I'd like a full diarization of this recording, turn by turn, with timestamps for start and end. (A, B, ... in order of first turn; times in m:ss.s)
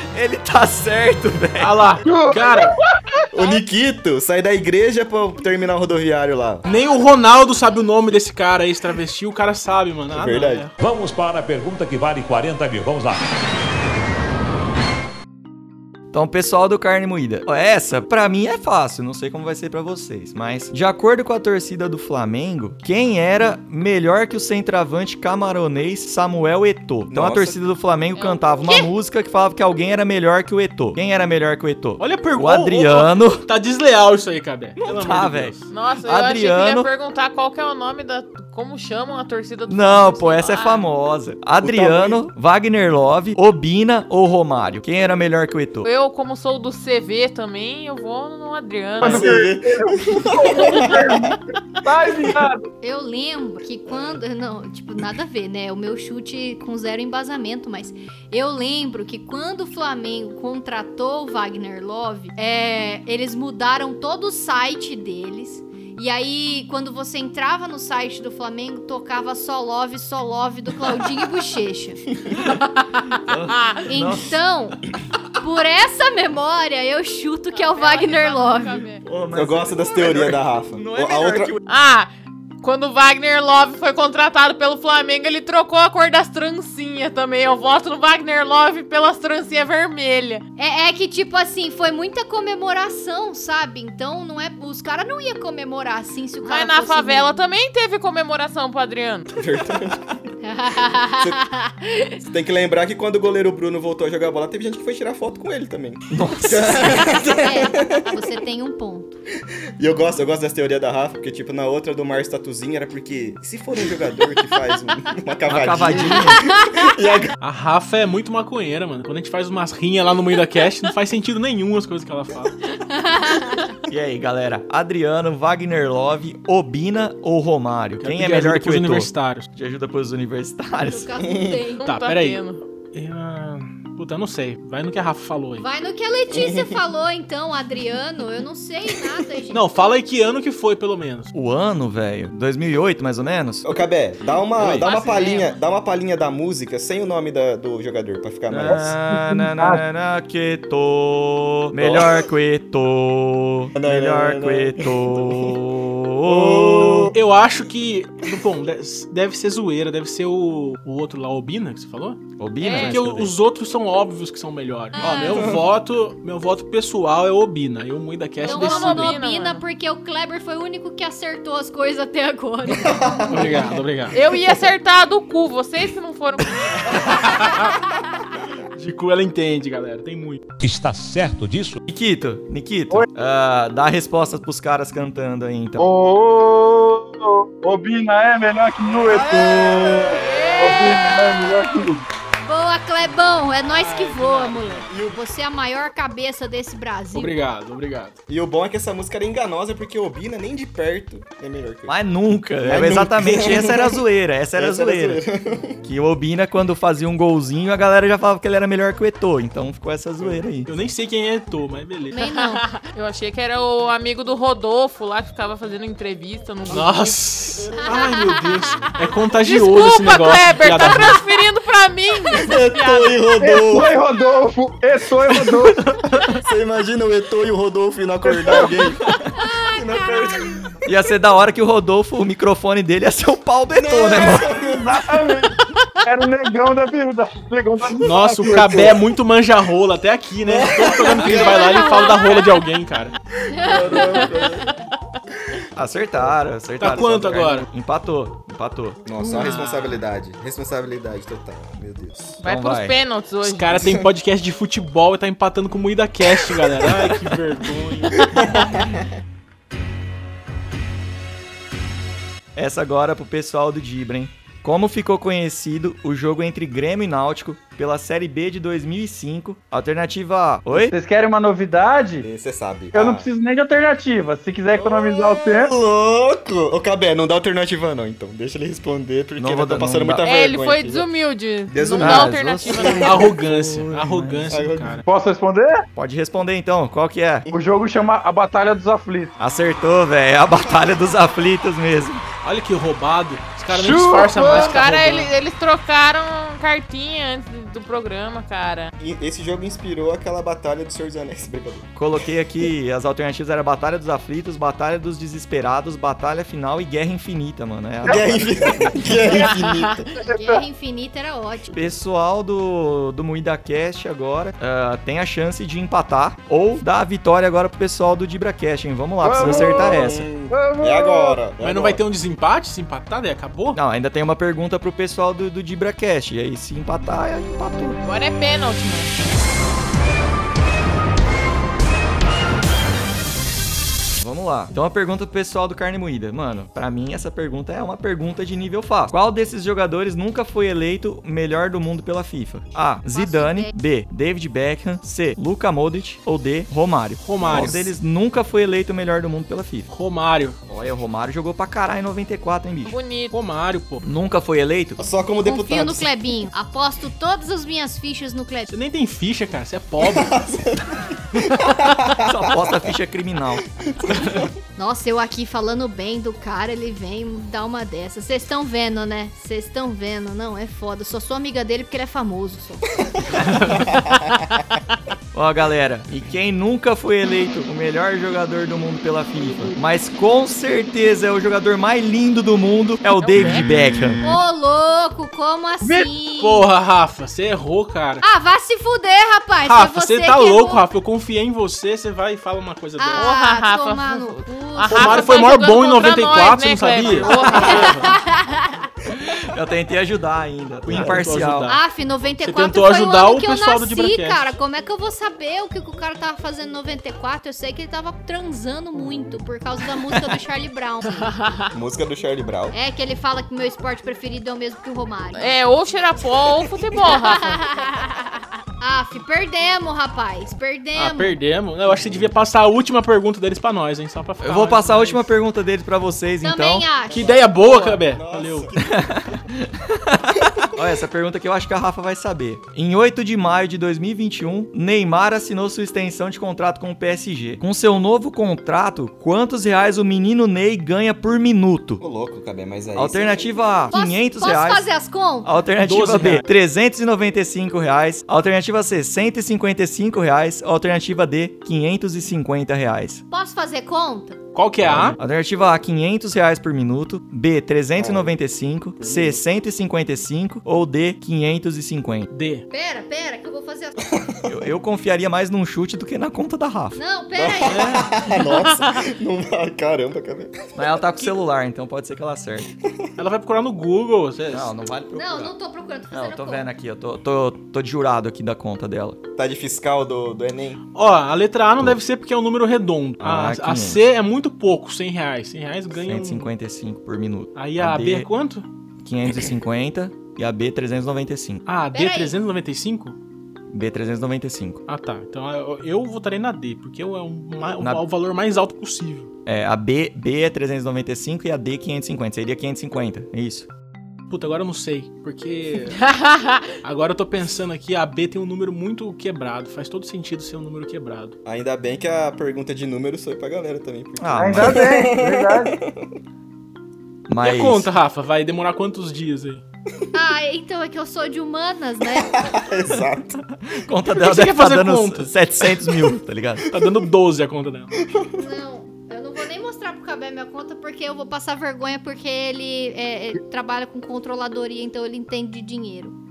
0:00.1-0:02.0 A
0:01.6-0:02.7 B
0:02.0-0:02.9 C
0:03.3-0:06.6 D
0:06.6-0:10.8 B
0:10.1-0:10.7 D
0:10.8-0:13.2 E
0:16.1-0:33.4 A
0:27.1-0:27.6 D
0:28.1-0:28.9 F
0:32.0-0:35.7 B
0:34.8-0:36.9 A
0:35.7-0:40.8 F
0:39.7-0:45.9 A
0:41.6-0:42.2 D
0:45.8-0:49.3 F
0:49.0-0:51.3 D
0:49.0-0:52.7 C
0:52.8-1:12.0 G
1:13.1-1:14.3 A
1:13.9-1:14.8 G
1:15.4-1:18.8 G
1:17.5-1:19.0 F
1:19.0-1:21.6 A
1:19.3-1:21.6 D
1:21.7-1:22.1 F
1:22.6-1:30.4 F
1:30.6-1:37.4 G
1:36.4-1:39.3 F
1:39.3-1:40.1 D
1:40.4-1:42.2 G
1:42.2-1:48.1 D
1:46.1-1:47.2 A
1:47.2-1:49.2 G
1:49.8-1:57.3 D
1:55.5-1:56.4 A
1:56.1-1:56.8 G
1:57.4-2:02.5 B
2:02.8-2:03.7 G
2:03.9-2:11.1 A
2:08.0-2:09.5 B
2:10.8-2:11.8 G
2:11.3-2:11.6 D
2:11.8-2:12.6 F
2:11.8-2:15.6 B
2:15.6-2:19.6 G
2:16.3-2:16.8 D
2:19.5-2:21.3 B
2:21.3-2:23.7 A
2:23.6-2:28.9 D
2:24.8-2:25.6 F
2:28.5-2:37.1 A
2:28.7-2:29.8 C
2:31.7-2:32.3 D
2:33.8-2:35.6 D
2:36.2-2:37.1 D
2:37.1-2:49.2 B
2:42.4-2:43.3 A
2:42.6-2:43.0 F
2:45.0-2:45.4 F
2:45.0-2:45.3 G
2:45.4-2:45.6 D
2:48.4-2:53.2 G
2:48.4-2:49.6 F
2:52.7-2:53.7 D
2:53.3-2:54.2 B
2:54.1-2:57.4 F
2:57.1-2:57.7 B
2:58.7-3:00.4 B
3:00.6-3:01.8 E
3:01.8-3:05.9 A
3:05.8-3:12.0 C
3:08.8-3:10.9 D
3:10.0-3:11.3 F
3:12.4-3:17.3 G
3:13.5-3:15.0 B
3:14.9-3:15.2 D
3:17.1-3:18.2 B
3:18.3-3:22.0 D
3:21.9-3:25.2 A
3:22.6-3:24.0 D
3:24.5-3:25.8 D
3:25.8-3:30.8 A
3:30.6-3:32.2 B
3:32.1-3:32.6 G
3:32.3-3:37.2 F
3:36.7-3:41.2 B
3:39.4-3:43.3 F
3:42.3-3:43.9 D
3:43.4-3:45.9 C
3:46.4-3:50.8 D
3:48.2-3:48.9 C
3:50.8-3:54.6 A
3:53.7-3:55.0 D
3:54.5-3:59.0 C
3:58.0-4:03.1 B
4:00.4-4:01.8 D
4:01.2-4:02.5 F
4:03.5-4:04.0 G
4:03.5-4:04.7 D
4:03.8-4:04.2 F
4:05.8-4:09.0 A
4:06.8-4:07.7 B
4:09.0-4:12.4 D
4:09.2-4:10.0 B
4:12.4-4:13.8 F
4:12.4-4:12.9 A
4:13.4-4:18.2 B
4:13.8-4:14.1 D
4:18.2-4:19.1 D
4:22.5-4:30.9 A
4:30.8-4:32.2 C
4:32.2-4:33.3 D
4:32.9-4:35.7 C
4:34.7-4:41.1 D
4:39.4-4:40.2 A
4:40.2-4:43.2 F
4:41.7-4:43.3 D
4:42.0-4:44.7 A
4:43.0-4:45.0 B
4:44.5-4:45.0 D
4:45.0-4:45.8 C
4:45.9-4:47.5 A
4:47.5-4:49.4 C
4:49.4-4:52.2 A
4:52.4-4:55.3 B
4:53.7-4:54.8 C
4:54.4-4:58.9 F
4:59.0-5:01.8 D
5:01.9-5:09.2 A
5:08.0-5:09.4 C
5:08.0-5:10.1 D
5:10.2-5:10.6 C
5:10.2-5:11.9 G
5:11.7-5:20.3 A
5:19.2-5:21.4 C
5:19.4-5:22.0 D
5:21.6-5:23.8 B
5:23.7-5:28.0 A
5:28.0-5:29.1 F
5:34.2-5:49.9 A
5:43.1-5:43.7 G
5:47.2-5:47.9 B
5:47.5-5:47.8 D
5:49.9-5:50.6 B
5:50.7-5:53.0 A
5:52.8-5:53.4 F
5:53.3-5:54.0 B
5:54.0-5:55.0 A
5:55.0-5:56.1 D
5:55.4-5:58.7 G
5:58.7-6:00.4 B
6:00.0-6:02.9 D
6:02.2-6:03.7 A
6:03.7-6:04.6 D
6:04.8-6:12.9 G
6:13.0-6:14.4 D
6:15.3-6:24.3 A
6:23.2-6:23.6 F
6:24.2-6:26.7 G
6:25.8-6:28.2 B
6:28.2-6:30.8 G
6:29.6-6:33.3 B
6:33.0-6:35.4 G
6:33.2-6:38.0 F
6:34.9-6:38.2 B
6:37.2-6:38.9 G
6:39.4-6:41.7 A
6:40.8-6:41.8 B
6:41.7-6:51.4 G
6:42.4-6:44.6 B
6:51.2-6:51.7 F
6:51.7-6:52.8 D
6:52.7-6:55.5 G
6:55.3-6:57.6 F
6:57.1-7:01.4 G
7:00.9-7:05.3 B
7:04.4-7:06.9 A
7:06.4-7:07.4 G
7:07.1-7:08.7 B
7:07.1-7:09.0 D
7:08.8-7:22.0 A
7:22.0-7:23.6 D
7:22.9-7:24.9 A
7:23.9-7:25.5 G
7:25.4-7:33.2 A
7:25.8-7:26.4 B
7:33.3-7:34.4 G
7:34.5-7:35.2 B
7:34.8-7:42.3 A
7:37.9-7:38.4 D
7:39.0-7:39.4 D
7:42.3-7:42.6 B
7:42.7-7:44.0 G
7:44.1-7:44.4 D
7:44.5-7:47.0 A
7:47.0-7:48.0 G
7:47.3-7:51.3 D
7:47.7-7:48.0 B
7:50.7-7:52.7 A
7:53.2-7:54.7 B
7:54.5-7:55.5 A
7:55.2-7:56.6 G
7:56.1-7:59.2 A
7:59.4-8:00.8 D
8:00.9-8:06.5 B
8:03.2-8:04.0 A
8:06.0-8:08.3 A
8:07.5-8:08.6 B
8:09.0-8:11.6 A
8:11.6-8:13.2 B
8:11.9-8:12.4 G
8:13.7-8:14.8 A
8:14.9-8:19.3 B
8:19.4-8:23.7 A
8:24.3-8:26.0 B
8:26.0-8:26.7 F
8:26.8-8:31.4 B
8:31.4-8:36.2 D
8:34.2-8:35.0 A
8:34.4-8:35.8 C
8:37.3-8:37.9 A
8:37.4-8:39.6 B
8:40.1-8:42.5 G
8:42.2-8:43.4 D
8:43.7-8:46.7 A
8:44.1-8:45.3 B
8:46.7-8:48.1 B
8:48.1-8:48.4 D
8:48.3-8:56.2 G